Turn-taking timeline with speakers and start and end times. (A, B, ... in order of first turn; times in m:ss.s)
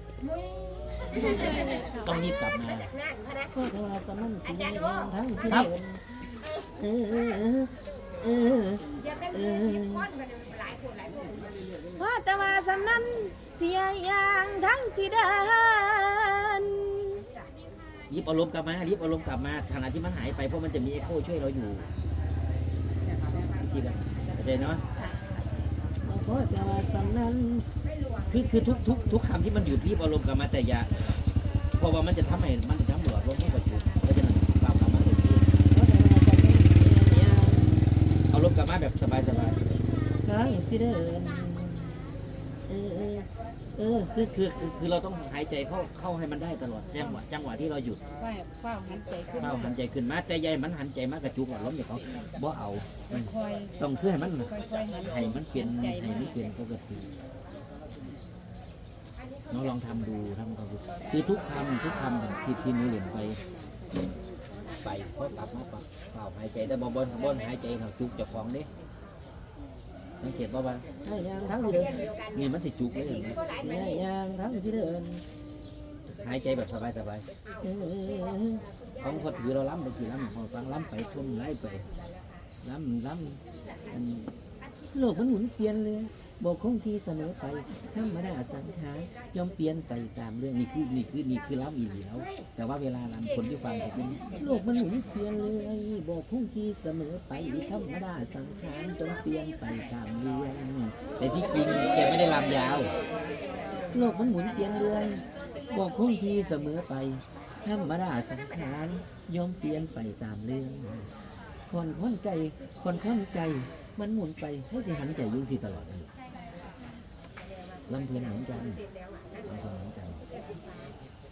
0:00.2-0:03.7 A
0:01.1-0:01.9 B
0:01.2-0:02.9 C
0:03.5-0:06.0 C
0:04.4-0:05.7 A
0:06.7-0:10.1 C
0:08.9-0:12.0 A
0:12.0-0:17.2 B
0:18.1-0:21.9 C
0:23.0-0:25.1 A
0:23.6-0:24.8 C
0:25.0-0:25.4 B
0:26.0-0:27.7 C
0:27.8-0:29.5 A
0:28.3-0:31.2 C
0:31.7-0:39.6 C
0:40.2-0:48.0 C
0:46.9-0:47.2 D
0:48.2-0:49.8 D
0:49.3-0:57.1 C
0:53.1-0:56.4 D
0:59.2-1:00.2 A
0:59.5-1:03.4 C
1:01.1-1:04.3 A
1:04.8-1:08.7 C
1:10.2-1:15.2 C
1:11.4-1:14.1 A
1:16.1-1:21.8 C
1:17.5-1:19.8 A
1:20.8-1:22.5 A
1:22.6-1:24.3 C
1:24.9-1:42.9 C
1:27.7-1:29.5 A
1:32.1-1:32.5 A
1:33.3-1:34.7 A
1:37.6-1:37.9 A
1:38.6-1:44.9 A
1:43.9-1:51.1 C
1:48.1-1:49.0 A
1:51.7-1:56.1 C
1:56.3-2:01.0 A
1:57.9-1:58.8 C
1:59.4-2:00.2 C